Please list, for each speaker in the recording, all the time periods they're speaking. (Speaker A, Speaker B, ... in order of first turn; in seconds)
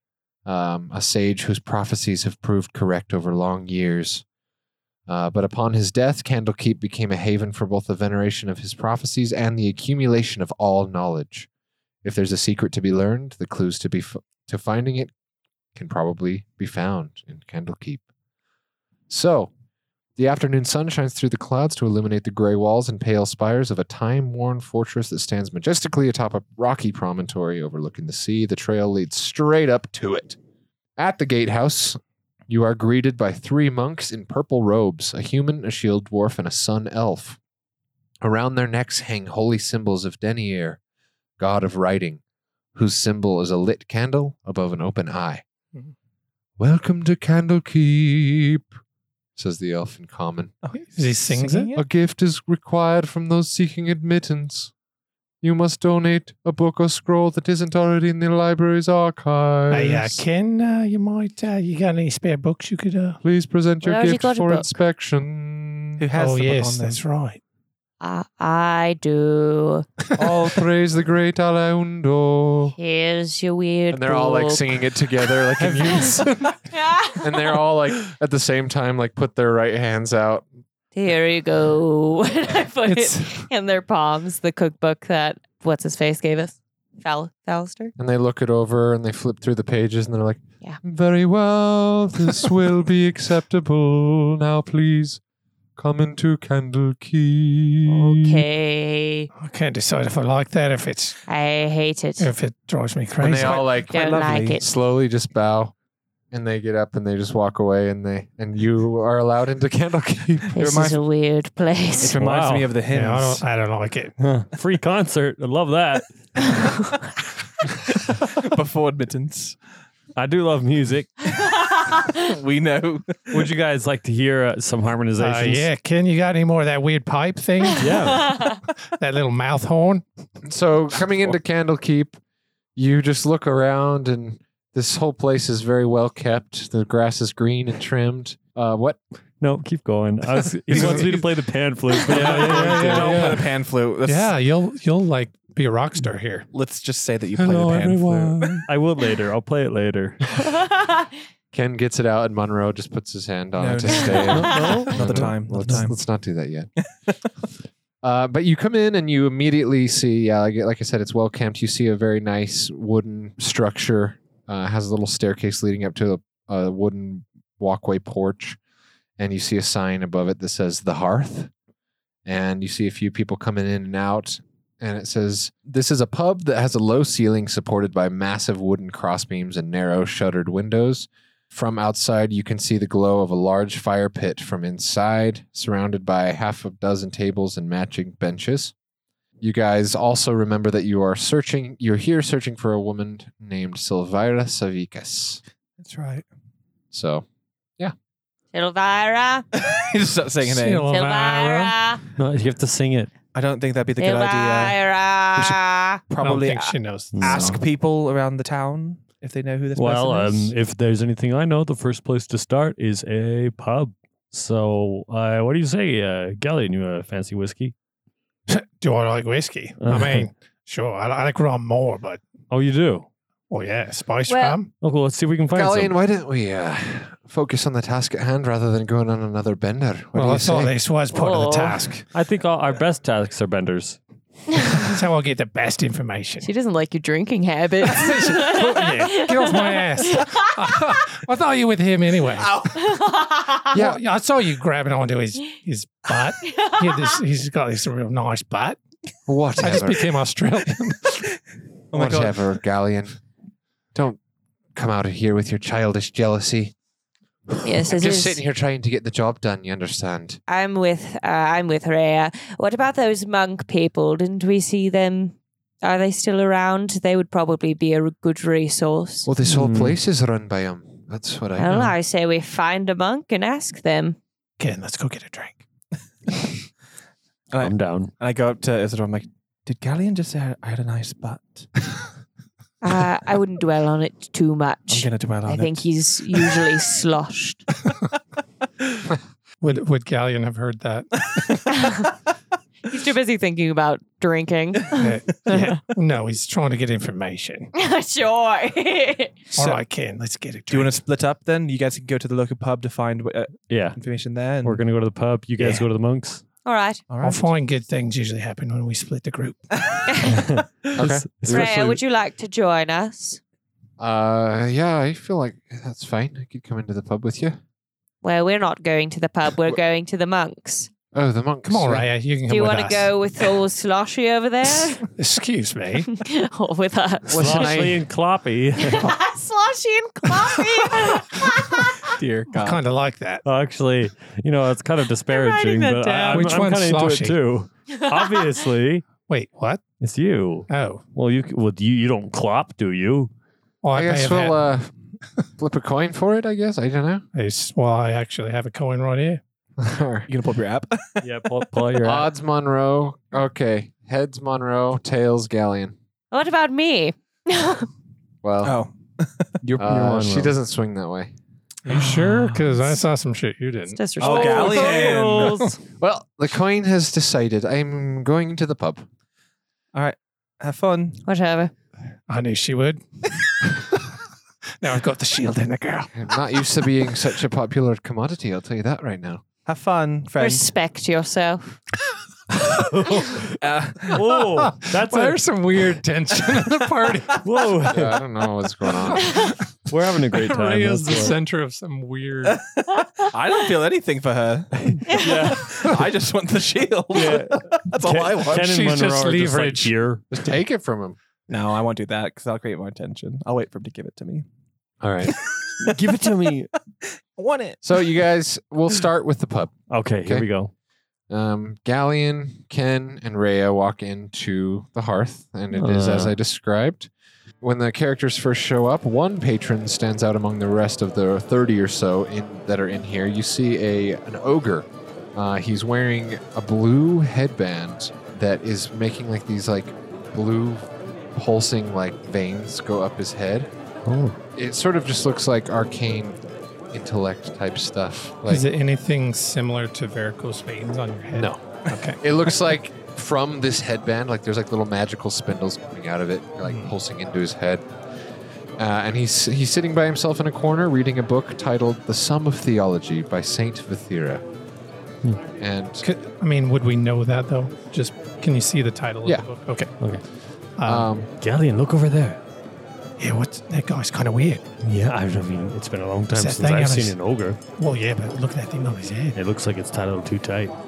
Speaker A: 0.5-4.2, 5.1-11.5, 12.0-15.1, 15.8-18.1, 19.1-19.5, 20.2-30.4, 31.0-37.4, 38.2-40.8, 41.4-42.2, 42.8-45.4, 46.6-48.7, 49.4-50.5, 51.7-54.7, 55.4-60.2, 63.2-66.0, 70.2-72.8, 73.9-76.6, 77.1-80.5, 88.0-95.2, 95.8-98.5, 103.2-105.7, 106.3-110.6, 130.4-132.2, 132.8-139.0, 151.5-156.7, 158.0-168.6, 169.2-171.5, 172.3-188.7, 189.4-195.4, 196.9-197.3, 225.5-230.8, 243.7-244.0, 249.3-250.2, 251.9-253.2, 253.9-254.2, 254.8-256.7, 257.5-260.4, 269.2-271.9, 311.0-311.9, 314.0-317.6, 321.1-322.1, 327.3-328.0, 343.9-344.9, 345.6-347.2, 349.8-350.3, 352.0-356.0, 358.4-358.8, 359.8-361.3, 366.0-369.1, 376.2-379.4, 387.9-389.5, 400.3-401.2, 405.0-405.4, 407.8-409.7, 411.3-417.1, 417.6-433.7, 434.6-436.4, 436.9-438.7, 441.4-447.9, 448.8-454.4, 455.6-456.1, 460.9-461.3
Speaker B: 50.6-51.8, 66.0-67.0, 103.4-104.6, 110.5-111.0, 112.0-113.5, 118.1-119.6, 121.5-123.5, 140.7-141.3, 142.0-144.3, 146.5-148.7, 153.6-156.0, 195.8-196.2, 199.6-200.9, 203.3-204.8, 206.1-210.5, 251.9-252.4, 277.5-281.8, 284.9-286.8, 300.7-304.8, 307.1-307.5, 332.0-332.8, 350.3-351.3, 358.6-359.9, 361.9-362.8, 364.2-365.7, 369.9-371.2, 379.6-380.7, 383.6-384.3, 392.4-398.7, 401.5-404.4, 405.3-406.1, 407.0-408.1
Speaker C: 50.8-51.7, 59.7-63.2, 66.1-67.4, 75.6-76.3, 82.9-83.4, 99.4-101.2, 102.2-103.7, 112.2-114.2, 125.2-130.1, 140.7-141.1, 142.1-143.5, 144.0-146.5, 200.4-201.8, 206.2-207.6, 218.5-222.2, 223.5-224.7, 230.1-232.1, 234.7-236.5, 237.8-242.7, 243.7-248.8, 249.6-251.3, 274.6-275.6, 289.6-291.7, 294.9-297.7, 299.6-301.0, 307.2-309.7, 321.6-323.1, 325.1-326.1, 332.6-333.4, 336.1-337.4, 339.3-339.8, 340.7-341.0, 343.8-344.6, 347.3-349.4, 361.9-365.5, 372.3-373.0, 374.8-376.4, 384.3-387.5, 389.2-389.6, 390.3-392.6, 398.5-399.9, 438.5-442.2, 446.6-446.9, 456.0-459.9, 460.8-461.1, 463.2-464.6, 466.3-467.2, 467.8-469.4
Speaker D: 63.8-64.7, 68.0-69.9, 72.8-74.7, 76.7-77.4, 81.0-87.9, 97.9-99.3, 101.3-102.3, 103.8-104.7, 110.5-112.2, 128.3-128.6, 150.6-151.1, 198.5-199.5, 200.9-202.0, 204.0-206.0, 224.3-224.6, 231.1-231.8, 236.4-241.0, 242.8-243.7, 246.5-247.1, 257.6-258.4, 260.5-269.3, 271.6-274.2, 282.8-287.7, 291.7-292.1, 292.9-295.8, 297.7-299.5, 306.6-307.0, 310.1-310.4, 311.4-313.4, 318.2-320.9, 322.5-325.1, 326.1-327.8, 328.8-332.1, 335.3-336.5, 338.1-338.6, 356.3-357.9, 363.9-365.3, 371.2-371.7, 380.4-381.8, 395.1-395.4
Speaker E: 112.1-112.7, 114.2-116.6, 120.2-121.3, 123.3-125.7, 127.8-128.5, 139.4-143.4, 147.4-150.5, 154.3-155.9, 202.2-203.1, 207.2-207.6, 209.8-217.7, 219.8-220.2, 222.5-223.1, 224.8-225.9, 232.1-234.0, 269.4-270.0, 277.6-278.1, 303.7-304.0, 304.6-306.4, 310.3-312.0, 327.3-329.1, 333.4-339.0, 340.0-343.3, 351.2-352.3, 359.7-360.5, 364.2-365.8, 382.7-385.5, 387.4-388.2, 389.9-391.4, 395.1-396.0, 397.1-400.2, 405.8-406.7, 409.9-410.7, 415.7-416.4, 434.1-434.4, 461.4-462.4, 464.8-467.6, 469.4-470.7